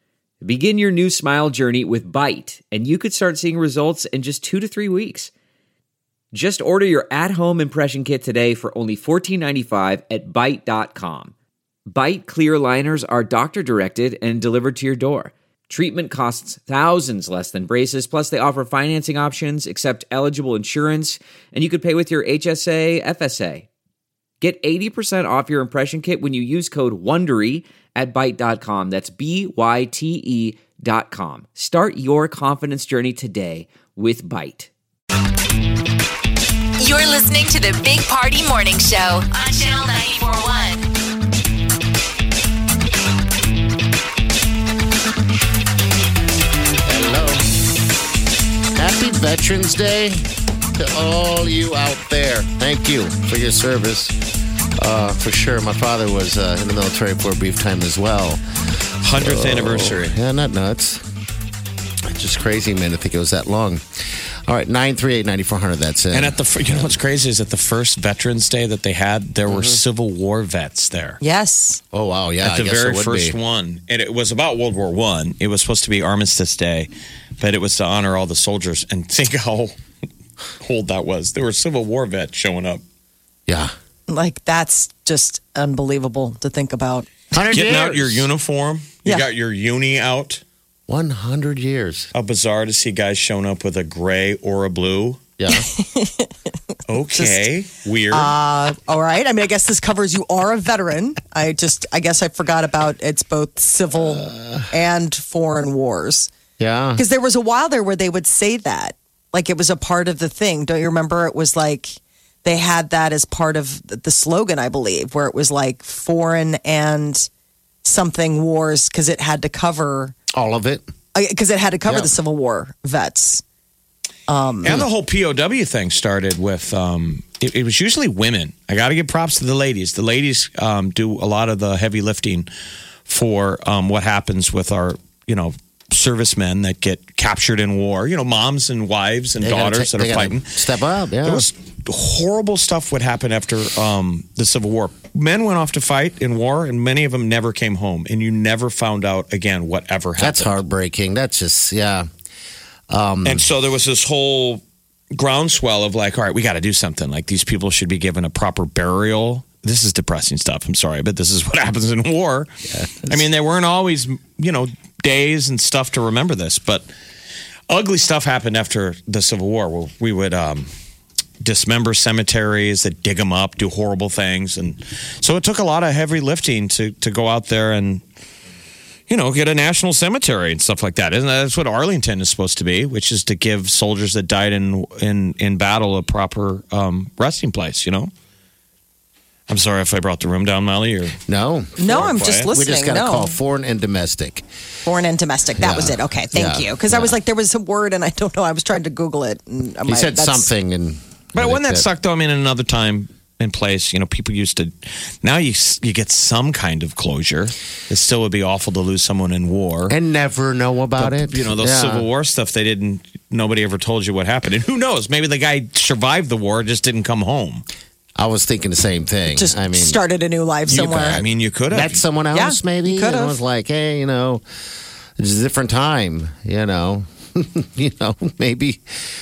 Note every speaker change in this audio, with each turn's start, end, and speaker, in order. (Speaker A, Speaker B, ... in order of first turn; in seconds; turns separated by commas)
Speaker A: 0.4-5.3, Speaker A: 6.3-11.3, Speaker A: 11.9-23.7, Speaker A: 24.4-34.7, Speaker B: 36.8-40.8, Speaker C: 46.9-47.5, Speaker C: 48.7-50.2, Speaker C: 50.7-54.1, Speaker C: 54.8-58.4, Speaker D: 59.0-60.1, Speaker C: 59.1-61.0, Speaker C: 62.1-63.8, Speaker C: 64.5-66.9, Speaker D: 66.1-71.2, Speaker C: 69.5-69.8, Speaker E: 71.2-71.8, Speaker C: 71.9-73.4, Speaker D: 72.4-79.7, Speaker D: 80.6-82.8, Speaker C: 83.5-83.7, Speaker E: 84.1-87.1, Speaker C: 87.3-88.3, Speaker D: 87.5-90.4, Speaker C: 90.9-92.1, Speaker D: 92.1-95.2, Speaker C: 95.4-95.7, Speaker E: 95.5-96.3, Speaker D: 96.9-98.3, Speaker E: 97.1-97.5, Speaker E: 98.1-106.3, Speaker C: 104.3-104.6, Speaker C: 106.6-107.0, Speaker E: 107.0-117.3, Speaker E: 117.8-120.2, Speaker C: 120.3-120.9, Speaker E: 121.1-123.4, Speaker C: 121.9-122.1, Speaker E: 124.3-124.8, Speaker D: 124.6-132.5, Speaker D: 133.1-140.5, Speaker C: 139.4-141.5, Speaker D: 141.2-150.6, Speaker C: 150.2-152.1, Speaker C: 152.9-153.4, Speaker D: 153.2-154.6, Speaker D: 155.1-162.5, Speaker C: 162.7-163.2, Speaker D: 163.1-166.9, Speaker D: 167.7-170.7, Speaker D: 171.4-178.0, Speaker D: 179.1-188.1, Speaker D: 189.5-191.2, Speaker C: 191.3-194.4, Speaker E: 191.8-193.4, Speaker D: 191.9-192.5, Speaker E: 194.8-200.5, Speaker C: 195.6-197.2, Speaker C: 199.9-201.9, Speaker D: 201.3-209.9, Speaker C: 209.9-212.1, Speaker D: 211.0-217.7, Speaker C: 218.2-220.0, Speaker E: 219.3-221.2, Speaker D: 220.7-222.0, Speaker C: 220.7-224.4, Speaker E: 222.3-223.4, Speaker C: 225.2-228.8